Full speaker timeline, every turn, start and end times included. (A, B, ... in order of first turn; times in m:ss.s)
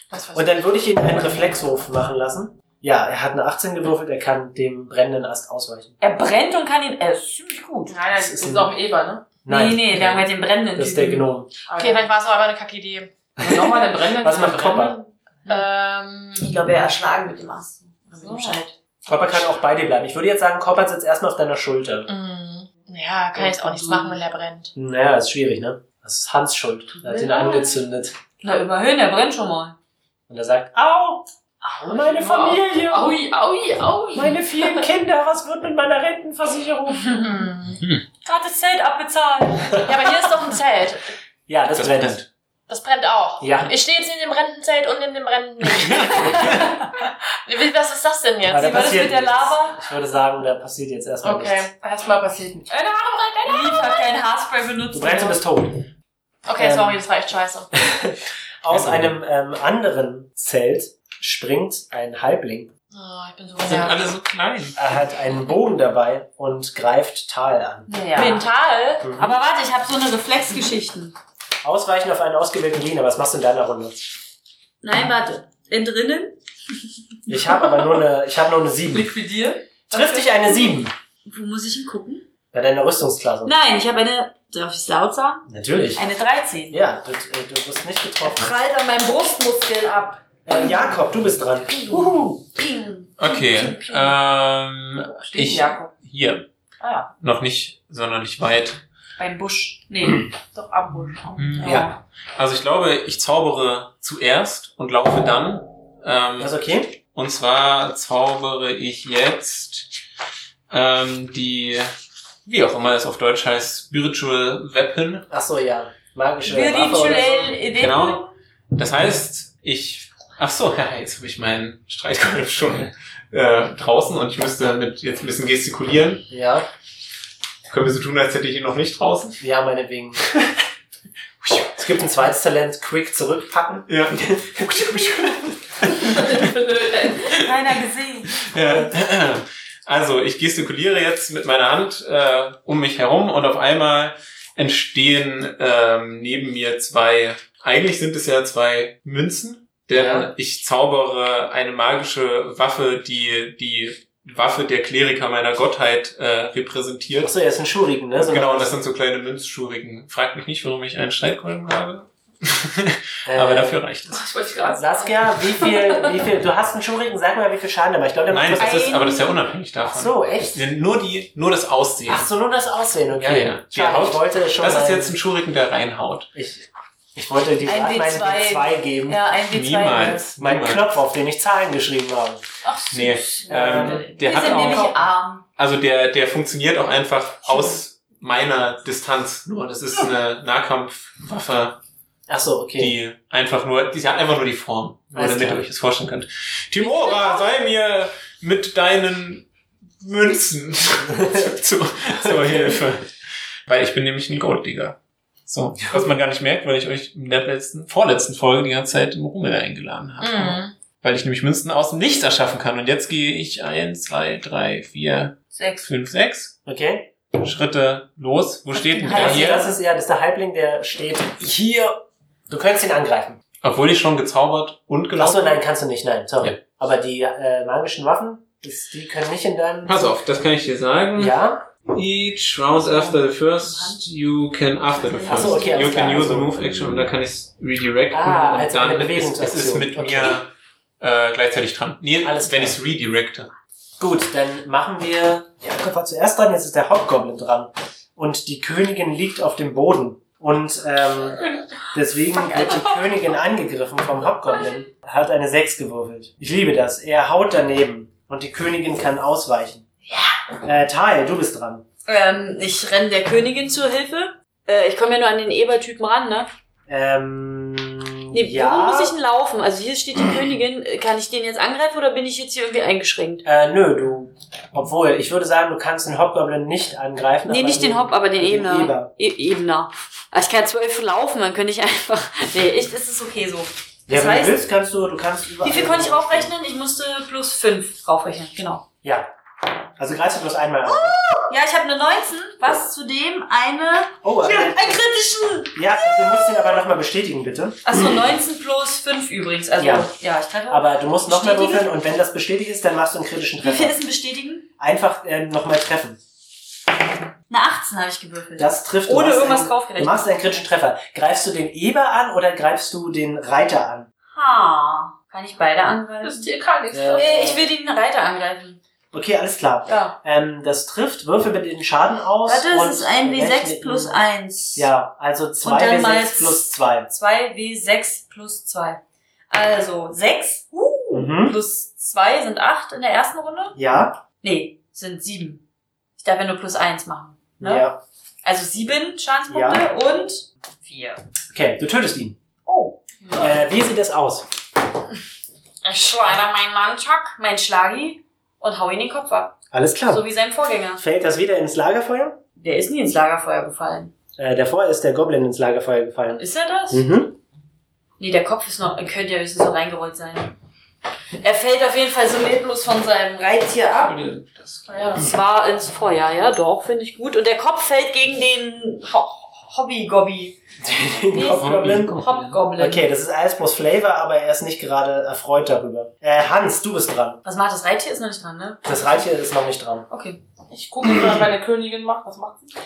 0:00.1-0:00.4 A
0:00.3-0:05.9 B
0:06.0-0:08.0 C
0:07.9-0:09.3 A
0:08.1-0:08.7 B
0:09.4-0:10.2 B
0:09.5-0:11.3 C
0:09.9-0:10.2 D
0:10.8-0:11.5 B
0:11.7-0:12.1 A
0:11.8-0:13.1 E
0:13.4-0:15.1 A
0:14.2-0:15.0 B
0:15.5-0:16.5 E
0:16.4-0:18.7 C
0:18.1-0:18.7 A
0:19.0-0:22.1 B
0:22.1-0:24.7 E
0:23.3-0:24.2 A
0:24.8-0:28.2 B
0:27.0-0:27.7 C
0:28.4-0:29.7 C
0:30.3-0:33.2 B
0:31.9-0:34.8 A
0:34.1-0:37.2 B
0:37.1-0:37.8 E
0:38.2-0:39.9 C
0:39.8-0:41.1 E
0:41.5-0:42.2 B
0:41.7-0:42.2 D
0:42.7-0:49.0 E
0:43.4-0:43.7 B
0:45.8-0:46.7 D
0:48.5-0:51.7 B
0:48.5-0:49.8 C
0:51.2-0:54.0 A
0:51.3-0:51.7 E
0:53.4-0:55.4 C
0:54.9-0:55.9 B
0:56.4-0:57.7 E
0:56.6-0:57.0 B
0:57.7-1:02.7 B
0:58.7-0:59.1 D
1:02.9-1:04.0 E
1:03.6-1:04.8 D
1:04.8-1:07.9 B
1:07.9-1:08.4 C
1:08.1-1:09.1 E
1:09.0-1:09.3 B
1:09.2-1:11.2 C
1:11.6-1:14.0 B
1:14.8-1:16.4 C
1:17.3-1:19.1 B
1:18.9-1:20.4 A
1:19.9-1:20.9 B
1:21.2-1:22.3 C
1:22.5-1:23.5 B
1:23.4-1:26.8 C
1:25.5-1:26.0 B
1:26.7-1:28.5 B
1:28.2-1:31.0 C
1:30.4-1:32.2 B
1:31.6-1:34.2 C
1:33.2-1:36.4 D
1:35.1-1:35.9 A
1:36.8-1:37.1 A
1:37.2-1:38.8 D
1:39.2-1:40.3 C
1:40.5-1:41.8 A
1:41.4-1:46.6 D
1:41.6-1:42.0 C
1:46.4-1:47.0 B
1:47.1-1:49.9 D
1:50.7-1:51.9 D
1:52.4-1:55.2 D
1:55.3-1:57.5 B
1:56.4-1:58.3 C
1:57.8-2:06.2 D
2:06.3-2:06.7 B
2:07.7-2:09.4 D
2:09.4-2:10.2 B
2:11.4-2:11.7 D
2:11.7-2:15.4 B
2:13.9-2:16.5 D
2:15.9-2:17.2 A
2:17.2-2:17.5 D
2:17.2-2:18.4 C
2:18.4-2:37.3 D
2:29.9-2:30.3 B
2:37.2-2:38.8 B
2:38.2-2:44.3 D
2:43.2-2:43.8 B
2:44.1-2:46.2 A
2:44.7-2:48.9 B
2:48.3-2:52.3 D
2:48.6-2:49.4 C
2:49.9-2:50.6 B
2:52.0-2:55.2 B
2:53.2-2:56.3 D
2:56.3-2:59.2 B
2:57.6-3:00.2 C
2:59.5-3:00.8 D
3:00.3-3:02.4 B
3:02.6-3:05.4 C
3:02.9-3:11.8 D
3:03.5-3:04.7 B
3:03.9-3:04.1 A
3:07.4-3:07.8 C
3:12.3-3:12.9 B
3:12.8-3:19.5 D
3:15.1-3:15.6 B
3:16.8-3:17.4 C
3:20.0-3:23.1 D
3:21.2-3:21.5 B
3:22.2-3:22.8 B
3:23.7-3:25.0 D
3:25.5-3:36.6 D
3:30.2-3:30.7 E
3:35.5-3:35.8 C
3:36.6-3:37.1 B
3:37.3-3:39.7 D
3:38.8-3:39.7 C
3:39.1-3:43.4 B
3:43.6-3:45.6 D
3:45.2-3:50.1 B
3:49.8-4:03.5 D
3:51.2-3:51.6 B
3:52.7-3:54.0 C
3:54.8-3:57.1 C
3:55.3-3:56.6 B
3:58.1-4:00.4 B
4:02.2-4:02.8 B
4:04.0-4:19.8 B
4:12.3-4:13.1 C
4:20.6-4:21.8 B
4:22.0-4:26.5 C
4:26.9-4:29.2 B
4:28.3-4:33.4 C
4:33.4-4:39.1 B
4:37.5-4:44.6 C
4:44.1-4:46.5 B
4:45.6-4:48.8 C
4:49.0-4:49.3 B
4:50.0-4:51.2 B
4:50.9-4:55.8 C
4:54.2-4:54.9 B
4:55.7-4:58.3 B
4:57.8-5:01.9 C
4:59.8-5:00.1 B
5:00.7-5:04.0 B
5:03.6-5:04.7 C
5:04.8-5:06.2 B
5:07.5-5:10.3 C
5:08.6-5:14.1 B
5:14.3-5:16.5 C
5:16.2-5:17.5 A
5:16.9-5:17.6 B
5:17.1-5:18.8 C
5:19.1-5:24.2 B
5:19.9-5:20.2 C
5:22.4-5:24.9 C
5:24.7-5:27.1 B
5:25.6-5:33.8 C
5:31.1-5:31.6 B
5:33.8-5:34.2 B
5:34.4-5:35.6 C
5:36.2-5:37.9 C
5:37.6-5:38.0 B
5:38.4-5:41.2 C
5:39.5-5:39.8 B
5:41.5-5:42.4 B
5:42.6-5:43.5 C
5:43.4-5:44.5 B
5:45.8-5:51.0 C
5:49.7-5:50.2 B
5:51.0-5:52.4 B
5:52.6-5:54.1 C
5:54.4-5:57.4 B
5:56.3-5:57.1 C
5:58.2-6:00.5 C
6:01.4-6:04.1 C
6:04.0-6:05.3 D
6:04.9-6:05.3 A
6:05.1-6:10.6 C
6:10.8-6:12.2 B
6:11.3-6:13.0 C
6:11.4-6:12.6 D
6:12.8-6:17.4 B
6:17.4-6:19.0 C
6:18.8-6:20.1 B
6:20.1-6:20.4 C
6:20.7-6:22.7 A